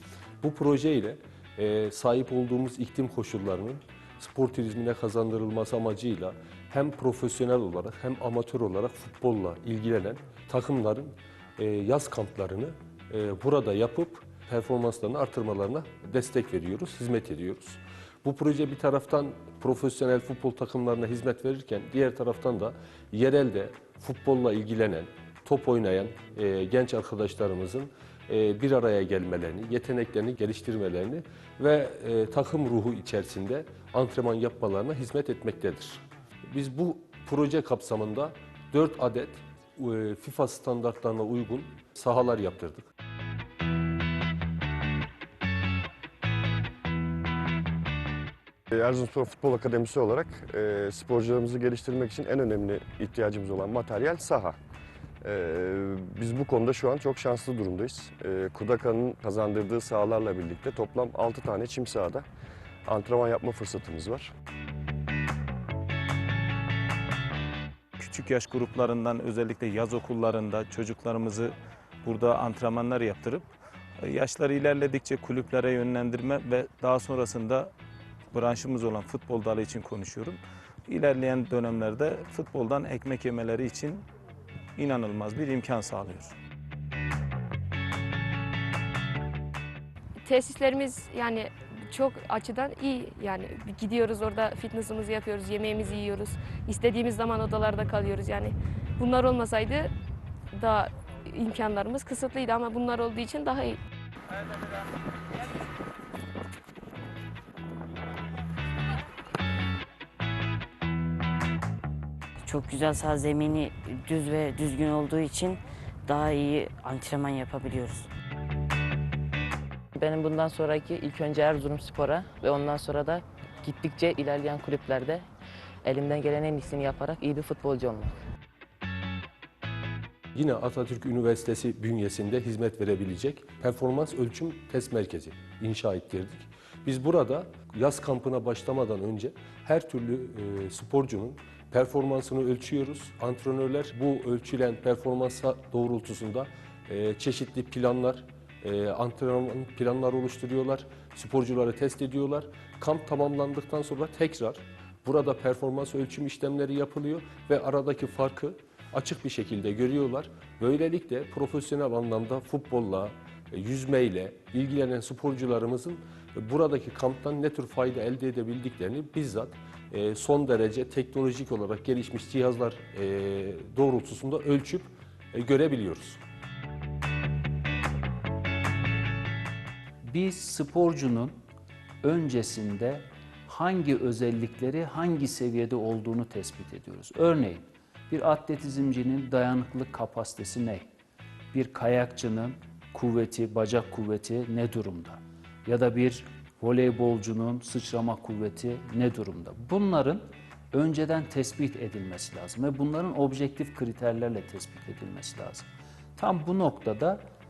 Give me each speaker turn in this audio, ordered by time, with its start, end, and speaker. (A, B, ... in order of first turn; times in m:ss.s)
0:00.4-0:42.9 A
0:48.7-0:54.6 B
0:55.2-1:02.3 B
1:02.9-1:04.3 B
1:08.0-1:17.7 C
1:18.3-1:24.1 C
1:24.8-1:26.3 C
1:30.2-1:39.9 D
1:40.5-1:43.8 D
1:52.4-1:58.1 E
2:00.0-2:05.3 F
2:05.8-2:08.2 F
2:10.4-2:56.2 A
3:00.1-3:01.4 G
3:02.0-3:10.9 G
3:11.5-3:27.2 G